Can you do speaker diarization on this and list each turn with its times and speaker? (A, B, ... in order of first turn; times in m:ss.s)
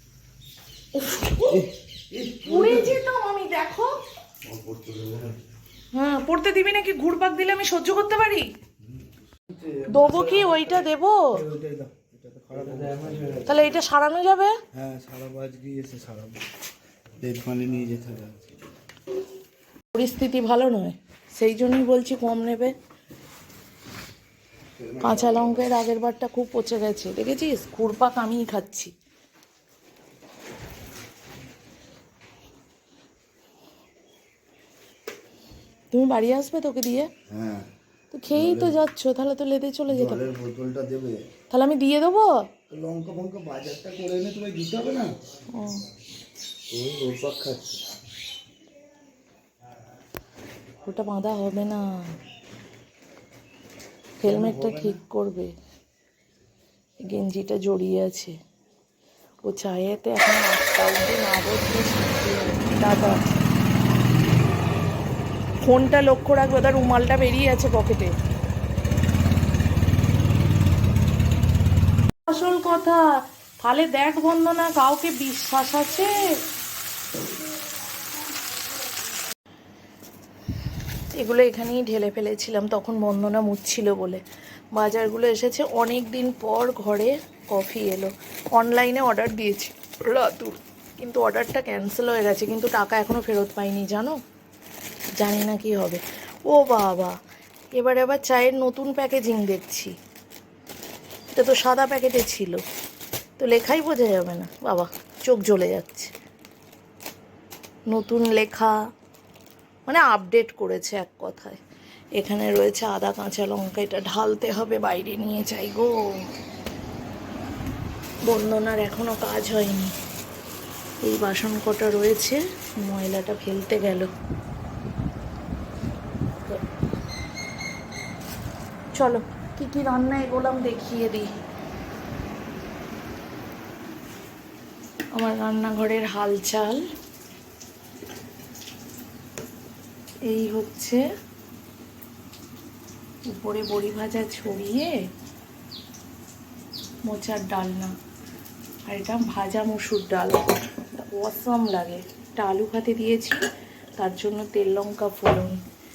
0:01.0-0:01.7 A
0:01.5-0:03.0 B
0:02.4-0:04.0 A
0:04.4-0:05.4 B
0:05.9-0:08.5 A
0:09.6-0:10.6 B
0:09.9-0:11.4 A
0:11.4-0:13.6 B
0:13.4-0:14.6 A
0:14.7-0:16.4 B
0:17.2-0:18.6 B
0:19.9-0:22.7 A
0:24.8-0:25.7 B
0:25.0-0:28.9 A
0:35.9-0:37.1 A
0:37.3-0:37.7 B
0:38.1-0:40.3 A
0:38.3-0:38.8 B
0:39.9-0:41.3 B
0:41.5-0:42.4 A
0:42.7-0:45.2 B
0:45.5-0:45.8 A
0:46.7-0:47.8 B
0:50.8-0:52.0 A
0:54.2-0:55.5 A
0:54.2-0:55.0 B
0:57.0-0:58.4 A
0:59.4-1:03.2 A
1:05.6-1:08.1 A
1:12.3-1:13.0 A
1:13.6-1:16.2 A
1:21.1-1:24.2 A
1:24.7-1:34.2 A
1:35.2-1:37.2 A
1:37.8-1:40.0 A
1:41.4-1:42.6 A
1:43.4-1:46.1 A
1:47.9-1:48.8 A
1:49.9-1:51.6 A
1:52.2-1:56.3 A
1:58.2-1:59.9 A
2:01.0-2:04.1 A
2:09.0-2:11.3 A
2:15.2-2:16.8 A
2:20.3-2:21.0 A
2:23.3-2:24.9 A
2:27.1-2:27.9 A
2:28.9-2:33.4 A
2:34.0-2:35.6 A